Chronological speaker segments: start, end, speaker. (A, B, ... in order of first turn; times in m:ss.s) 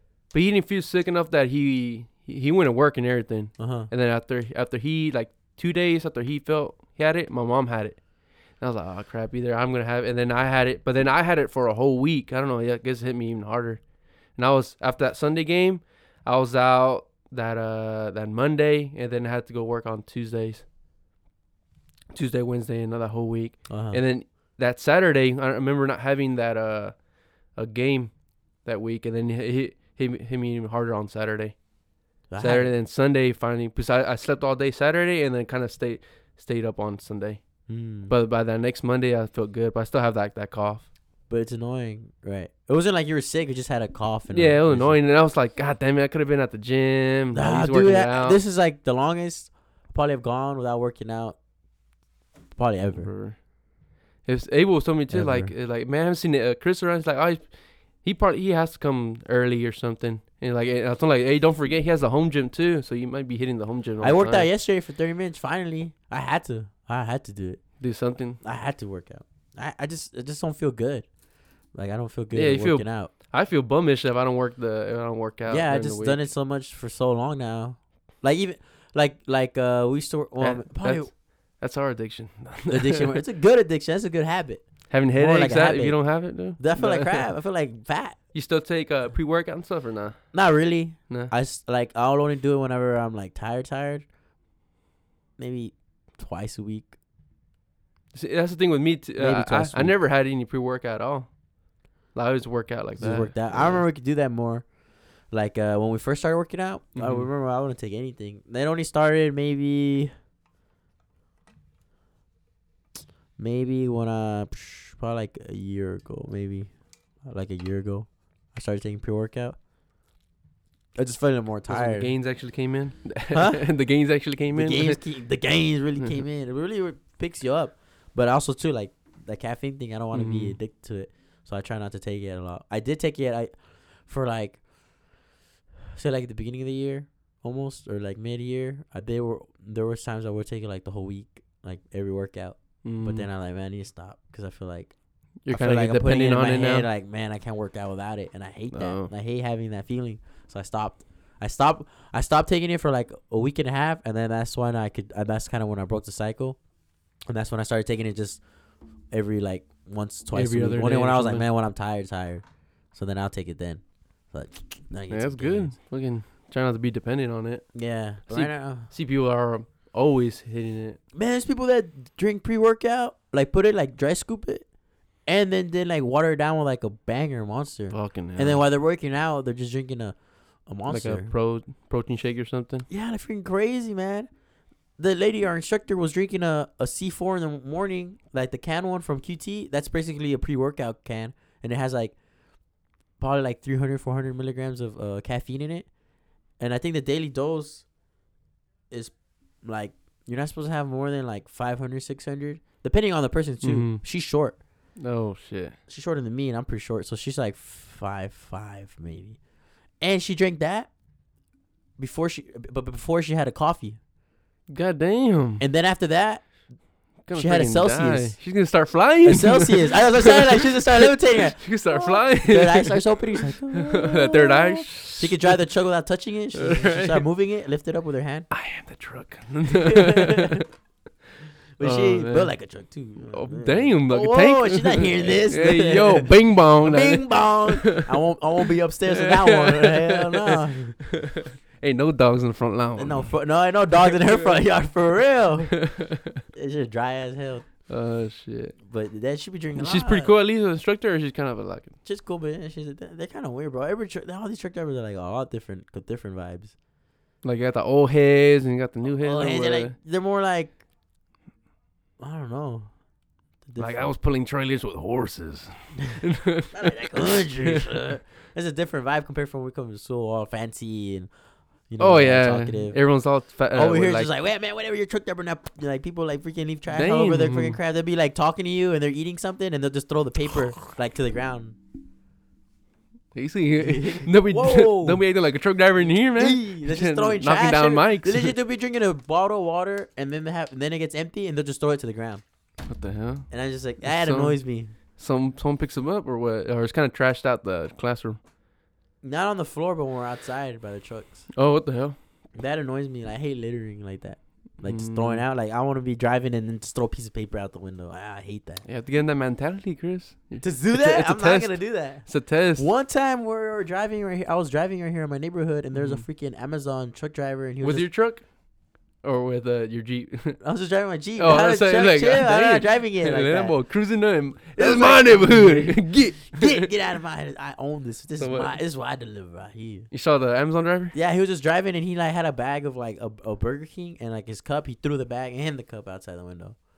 0:00.3-0:20.6 A
0:03.6-0:03.9 B
0:22.1-0:31.6 A
0:23.7-0:24.0 B
0:32.3-0:32.7 B
0:32.4-0:40.9 A
0:37.7-0:38.1 B
0:41.3-0:45.0 B
0:44.3-0:48.4 A
0:47.3-0:51.4 B
0:52.5-0:53.1 B
0:52.9-0:53.5 A
0:54.2-1:04.5 A
0:55.1-0:55.5 B
1:04.0-1:07.8 B
1:07.8-1:08.4 A
1:08.4-1:11.1 B
1:11.7-1:13.1 B
1:12.3-1:16.2 A
1:15.5-1:21.1 B
1:20.4-1:23.2 A
1:22.7-1:28.2 B
1:24.9-1:27.3 A
1:28.3-1:30.3 A
1:30.3-1:34.1 B
1:35.4-1:36.9 B
1:38.1-1:41.3 A
1:39.2-1:40.0 B
1:42.1-1:43.8 A
1:43.0-1:44.7 B
1:45.2-1:50.1 B
1:47.0-1:47.3 A
1:53.4-1:59.6 B
2:01.0-2:02.1 B
2:01.7-2:05.0 A
2:03.3-2:03.6 B
2:04.5-2:14.6 B
2:10.1-2:10.6 A
2:16.0-2:24.9 B
2:22.8-2:23.3 A
2:25.4-2:26.9 A
2:25.5-2:36.6 B
2:28.7-2:29.1 A
2:37.3-2:38.4 B
2:39.1-2:45.8 B
2:40.3-2:41.5 A
2:45.1-2:47.8 A
2:47.7-2:48.9 B
2:48.3-2:51.0 A
2:51.1-2:54.7 B
2:55.3-3:01.3 B
2:57.9-2:58.6 A
3:00.9-3:02.9 A
3:02.9-3:04.3 B
3:05.0-3:12.2 B
3:13.2-3:15.9 B
3:16.6-3:17.9 B
3:18.9-3:24.6 B
3:23.6-3:24.0 A
3:25.0-3:25.8 A
3:25.9-3:29.4 B
3:30.0-3:30.9 B
3:32.0-3:34.0 B
3:34.7-3:35.6 A
3:35.6-3:36.6 B
3:37.2-3:38.4 B
3:37.2-3:45.6 A
3:39.2-3:48.5 B
3:46.5-3:47.2 A
3:48.5-3:50.6 A
3:49.7-3:50.6 B
3:51.8-4:01.0 B
3:51.8-3:52.5 A
3:53.3-3:58.1 A
3:59.1-4:03.3 A
4:03.0-4:06.0 B
4:04.0-4:04.5 A
4:05.8-4:06.4 A
4:06.5-4:07.7 B
4:07.9-4:08.8 A
4:08.8-4:10.3 B
4:09.8-4:11.9 A
4:12.0-4:16.7 B
4:17.4-4:20.0 A
4:19.0-4:20.8 B
4:22.2-4:22.9 B
4:23.7-4:24.1 B
4:23.8-4:27.9 A
4:26.7-4:31.3 B
4:31.9-4:33.0 B
4:32.0-4:34.3 A
4:33.7-4:41.8 B
4:36.9-4:37.8 A
4:43.3-4:48.6 A
4:43.8-4:45.2 B
4:46.0-4:52.4 B
4:52.8-4:53.5 A
4:53.5-4:54.9 B
4:54.0-4:58.4 A
4:59.2-5:01.5 B
5:01.5-5:02.2 A
5:02.6-5:08.8 B
5:04.8-5:05.5 A
5:08.8-5:12.9 A
5:10.6-5:18.1 B
5:15.9-5:16.2 A
5:17.8-5:18.6 A
5:19.2-5:20.6 A
5:20.6-5:23.8 B
5:21.4-5:26.9 A
5:24.8-5:30.1 B
5:28.4-5:28.8 A
5:30.1-5:31.2 A
5:31.1-5:36.8 B